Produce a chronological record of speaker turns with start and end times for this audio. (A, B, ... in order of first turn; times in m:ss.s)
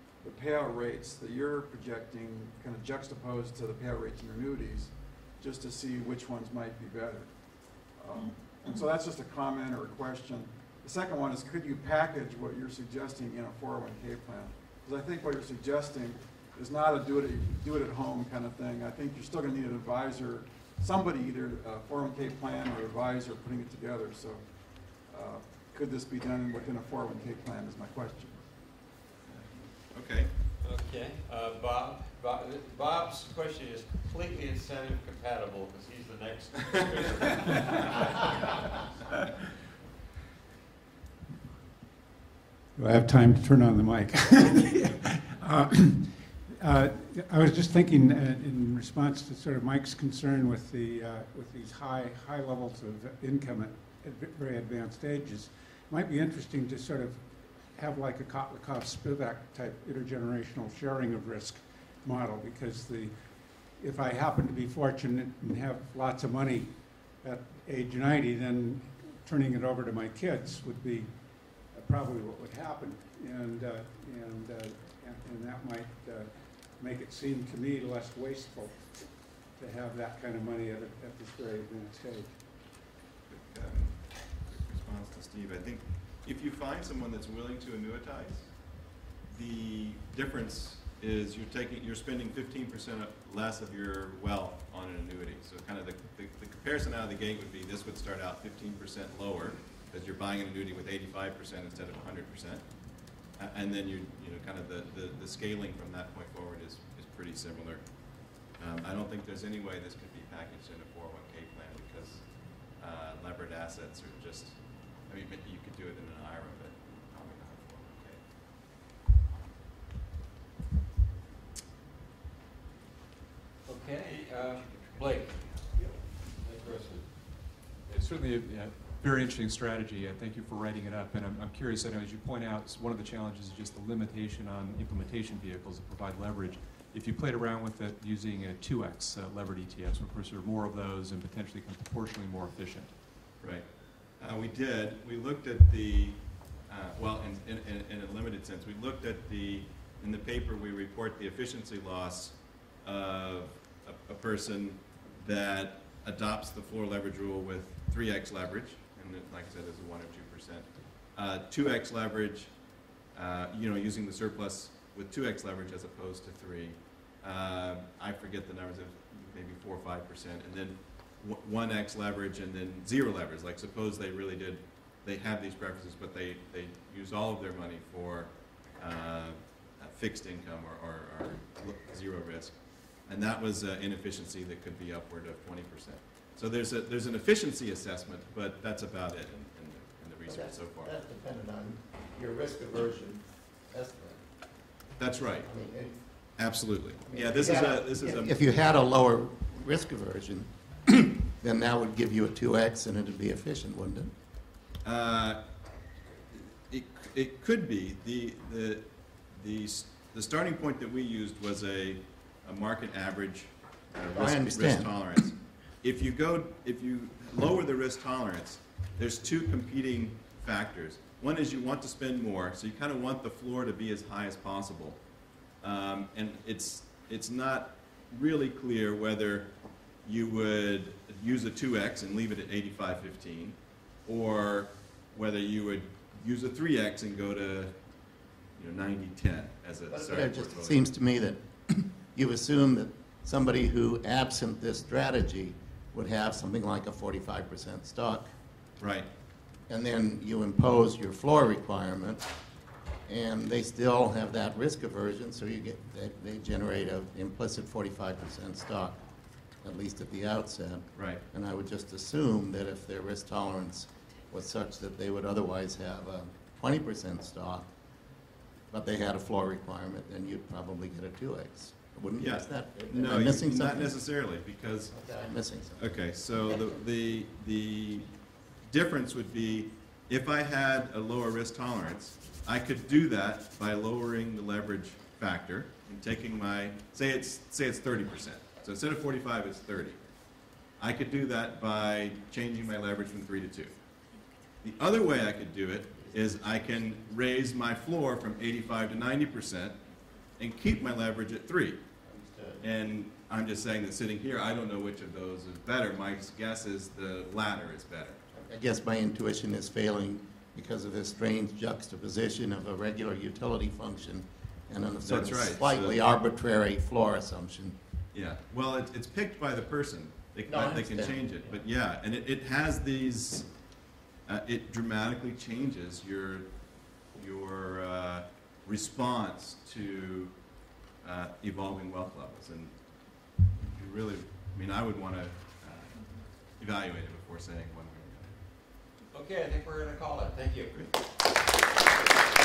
0:00.2-0:28.5 A
0:29.3-0:30.3 B
0:30.6-0:39.2 C
0:42.8-1:22.4 D
1:23.3-1:42.6 B
1:43.4-1:58.2 B
2:03.7-2:07.1 C
2:07.9-2:22.9 E
2:23.4-2:23.7 B
2:24.2-2:42.5 B
2:43.1-3:10.9 B
3:10.3-3:14.2 F
3:15.0-3:15.5 B
3:15.4-3:16.0 F
3:16.4-3:18.5 B
3:17.1-3:24.1 F
3:24.8-3:25.4 B
3:26.3-3:45.0 B
3:34.1-3:34.9 F
3:45.6-3:49.5 B
3:50.0-3:57.8 B
3:58.6-4:00.8 B
3:59.9-4:08.3 F
4:08.8-4:09.1 B
4:09.7-4:12.3 F
4:13.1-4:19.0 F
4:19.6-4:27.7 F
4:21.0-4:21.2 B
4:28.7-4:34.0 F
4:32.2-4:35.0 B
4:34.9-4:35.9 F
4:35.8-4:38.1 B
4:38.6-4:50.0 B
4:50.8-4:53.7 B
4:54.6-4:59.8 B
5:00.4-5:01.8 B
5:02.1-5:02.6 F
5:02.6-5:08.2 B
5:08.3-5:17.8 F
5:15.0-5:16.0 B
5:18.1-5:23.5 B
5:20.5-5:21.5 F
5:24.3-5:26.5 B
5:27.1-5:30.4 B
5:31.0-5:32.8 B
5:33.4-5:38.3 B
5:39.1-5:40.7 C